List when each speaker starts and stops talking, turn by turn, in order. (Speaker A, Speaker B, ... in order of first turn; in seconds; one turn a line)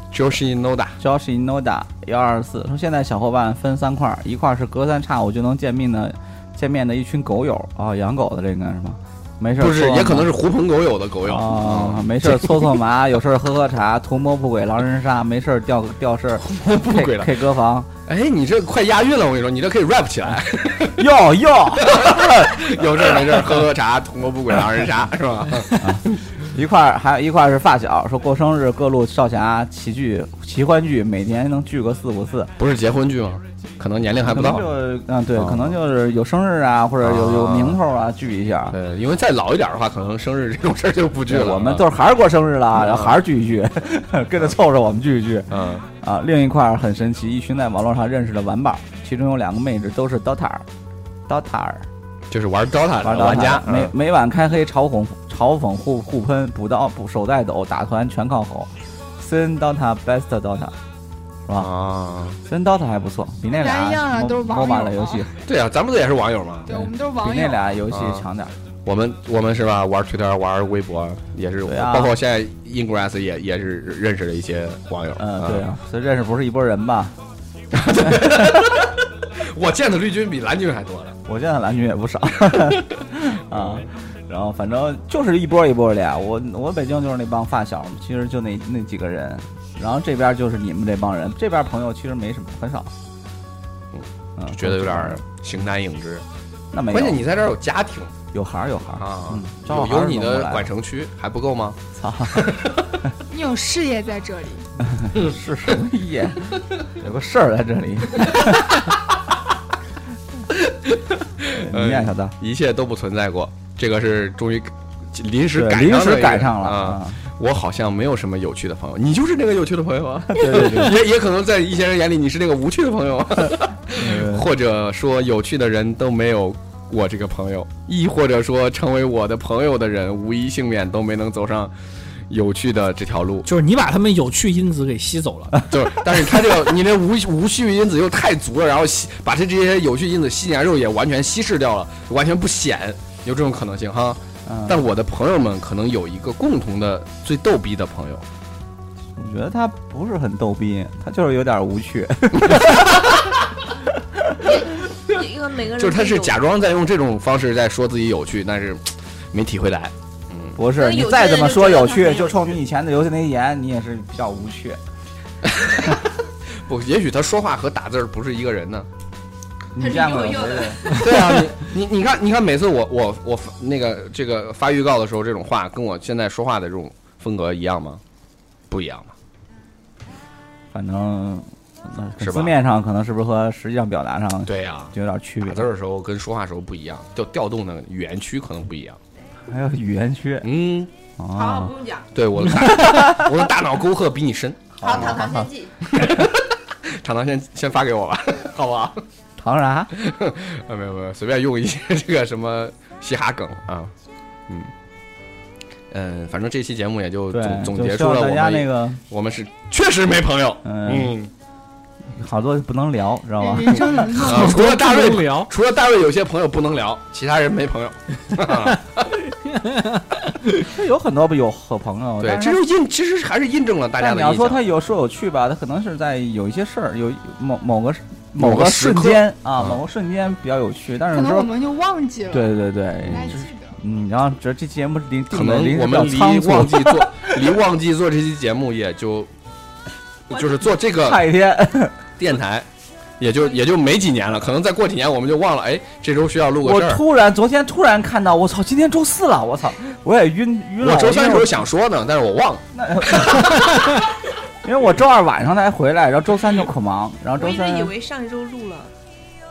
Speaker A: 0.1-1.0
Speaker B: 1.0-10.3
Speaker A: 9.6-12.8
Speaker B: 11.2-17.9
Speaker A: 16.5-17.4
Speaker A: 18.1-21.1
Speaker B: 21.0-23.5
Speaker A: 21.8-26.2
Speaker B: 25.8-32.5
Speaker A: 32.6-34.7
Speaker B: 34.2-38.8
Speaker A: 35.4-35.8
Speaker A: 37.0-37.8
Speaker A: 38.7-41.9
Speaker B: 41.3-50.7
Speaker A: 42.8-43.2
Speaker A: 45.5-45.9
Speaker B: 51.3-51.9
Speaker A: 52.3-53.9
Speaker B: 53.0-60.8
Speaker A: 61.6-62.4
Speaker B: 62.5-65.4
Speaker C: 63.4-65.3
Speaker A: 65.5-66.7
Speaker B: 66.7-68.6
Speaker C: 66.7-67.8
Speaker A: 67.9-68.3
Speaker A: 68.9-75.7
Speaker B: 71.7-72.2
Speaker B: 75.2-77.2
Speaker A: 77.7-81.2
Speaker B: 77.9-78.7
Speaker B: 81.3-92.9
Speaker A: 83.5-83.9
Speaker A: 93.9-96.2
Speaker B: 94.4-95.2
Speaker B: 96.7-97.2
Speaker A: 96.9-98.2
Speaker B: 98.3-100.7
Speaker A: 99.0-101.8
Speaker B: 102.0-102.5
Speaker A: 102.3-102.9
Speaker C: 103.3-104.7
Speaker B: 104.8-108.9
Speaker A: 110.5-131.7
Speaker B: 111.5-112.3
Speaker B: 115.5-117.2
Speaker B: 120.3-121.0
Speaker B: 124.0-124.5
Speaker A: 132.3-133.5
Speaker D: 133.4-135.6
Speaker A: 135.7-148.2
Speaker B: 144.5-144.8
Speaker B: 149.2-153.3
Speaker B: 154.1-154.5
Speaker E: 154.4-156.4
Speaker A: 155.8-160.6
Speaker B: 160.6-164.8
Speaker E: 160.7-162.6
Speaker A: 165.4-166.1
Speaker A: 166.6-168.9
Speaker B: 169.7-170.9
Speaker E: 169.8-171.0
Speaker A: 170.9-178.0
Speaker A: 178.7-179.1
Speaker B: 180.7-185.7
Speaker A: 182.2-182.6
Speaker A: 184.5-189.0
Speaker B: 189.5-190.5
Speaker A: 190.4-190.9
Speaker B: 191.2-191.7
Speaker E: 191.3-192.1
Speaker A: 192.1-195.1
Speaker B: 192.7-193.3
Speaker E: 194.8-195.8
Speaker B: 194.8-195.5
Speaker A: 195.8-199.0
Speaker B: 199.4-199.9
Speaker A: 199.9-203.9
Speaker A: 205.9-211.3
Speaker B: 207.3-209.0
Speaker B: 210.7-211.1
Speaker B: 212.1-214.3
Speaker C: 213.4-214.6
Speaker A: 214.1-219.2
Speaker D: 214.1-215.5
Speaker D: 219.4-220.2
Speaker B: 220.6-222.6
Speaker A: 222.2-224.7
Speaker B: 224.0-231.5
Speaker A: 228.4-229.8
Speaker C: 231.1-233.8
Speaker B: 232.3-237.6
Speaker A: 233.0-233.4
Speaker A: 235.3-239.3
Speaker A: 240.3-241.2
Speaker B: 240.9-242.0
Speaker A: 242.2-242.7
Speaker A: 243.2-247.0
Speaker B: 246.6-251.7
Speaker A: 250.8-253.7
Speaker B: 252.7-253.8
Speaker B: 254.6-257.9
Speaker E: 257.4-258.9